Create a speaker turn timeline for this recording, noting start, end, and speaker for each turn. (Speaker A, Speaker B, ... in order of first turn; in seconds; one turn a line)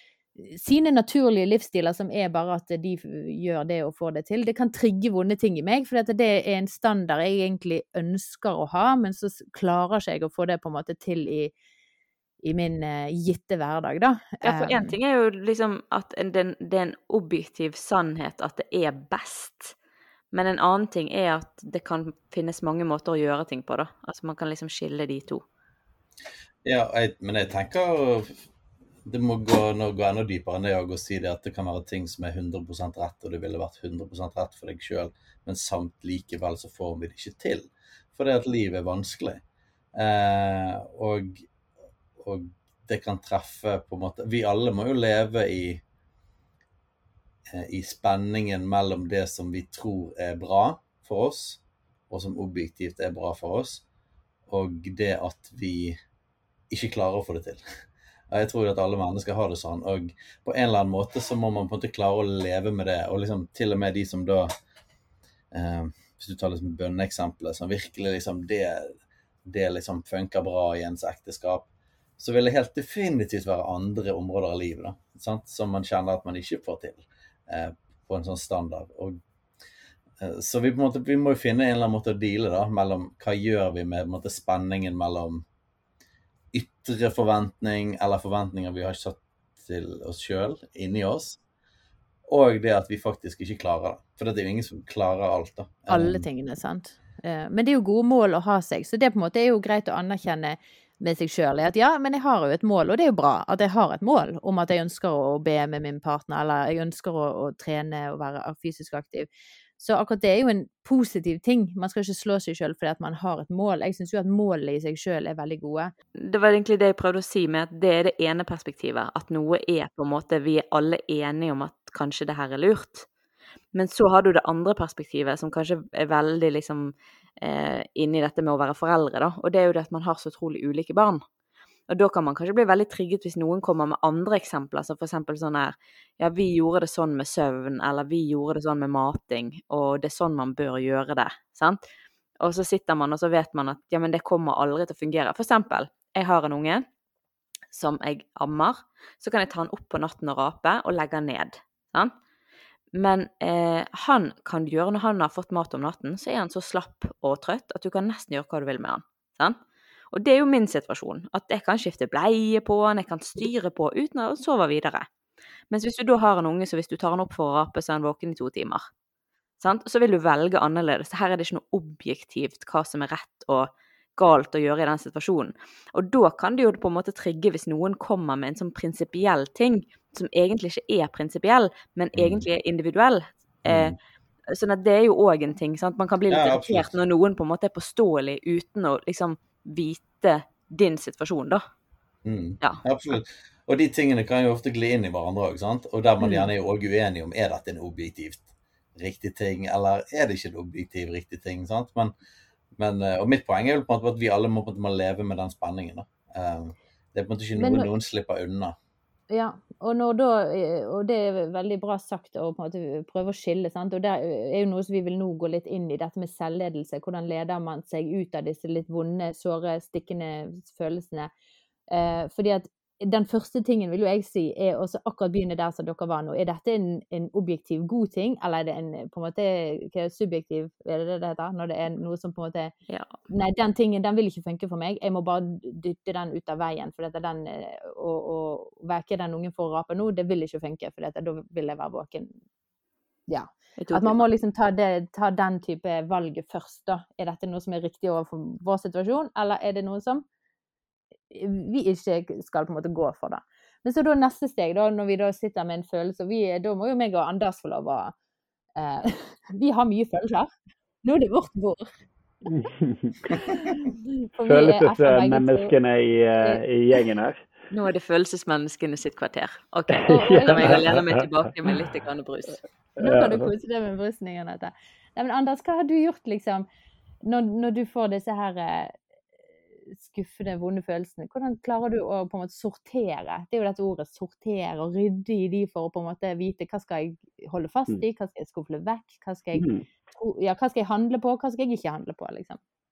Speaker A: 0.4-11.5
Speaker A: 12.4-15.0
Speaker B: 14.4-19.8
Speaker B: 20.3-25.4
Speaker C: 26.6-28.4
Speaker C: 29.1-39.4
Speaker C: 40.0-41.5
Speaker C: 42.2-45.8
Speaker C: 47.5-53.8
Speaker C: 54.5-56.0
Speaker C: 56.7-57.6
Speaker C: 58.3-64.5
Speaker C: 65.5-68.9
Speaker C: 69.5-71.7
Speaker C: 72.2-79.2
Speaker C: 80.2-85.5
Speaker C: 86.5-91.4
Speaker C: 92.3-96.2
Speaker A: 95.9-109.3
Speaker A: 109.8-115.9
Speaker B: 116.2-123.1
Speaker B: 123.7-131.2
Speaker B: 131.9-141.8
Speaker B: 142.4-146.8
Speaker B: 147.7-152.1
Speaker B: 152.9-159.6
Speaker B: 160.1-165.1
Speaker B: 165.7-168.9
Speaker B: 169.6-183.9
Speaker C: 182.2-182.5
Speaker C: 183.7-184.0
Speaker B: 184.5-191.6
Speaker C: 186.3-186.9
Speaker C: 192.2-202.1
Speaker C: 202.8-208.8
Speaker A: 207.6-207.9
Speaker A: 209.3-221.3
Speaker A: 221.9-232.7
Speaker A: 233.3-242.3
Speaker A: 243.3-250.2
Speaker B: 243.8-244.2
Speaker A: 251.3-258.1
Speaker A: 258.8-260.5
Speaker A: 261.0-261.9
Speaker D: 262.5-263.7
Speaker A: 263.3-265.7
Speaker D: 264.4-267.4
Speaker A: 266.4-266.6
Speaker B: 267.7-272.6
Speaker D: 269.9-271.7
Speaker A: 270.1-270.8
Speaker D: 273.0-273.5
Speaker A: 273.0-276.7
Speaker A: 277.2-279.0
Speaker A: 279.9-292.6
Speaker D: 289.5-289.9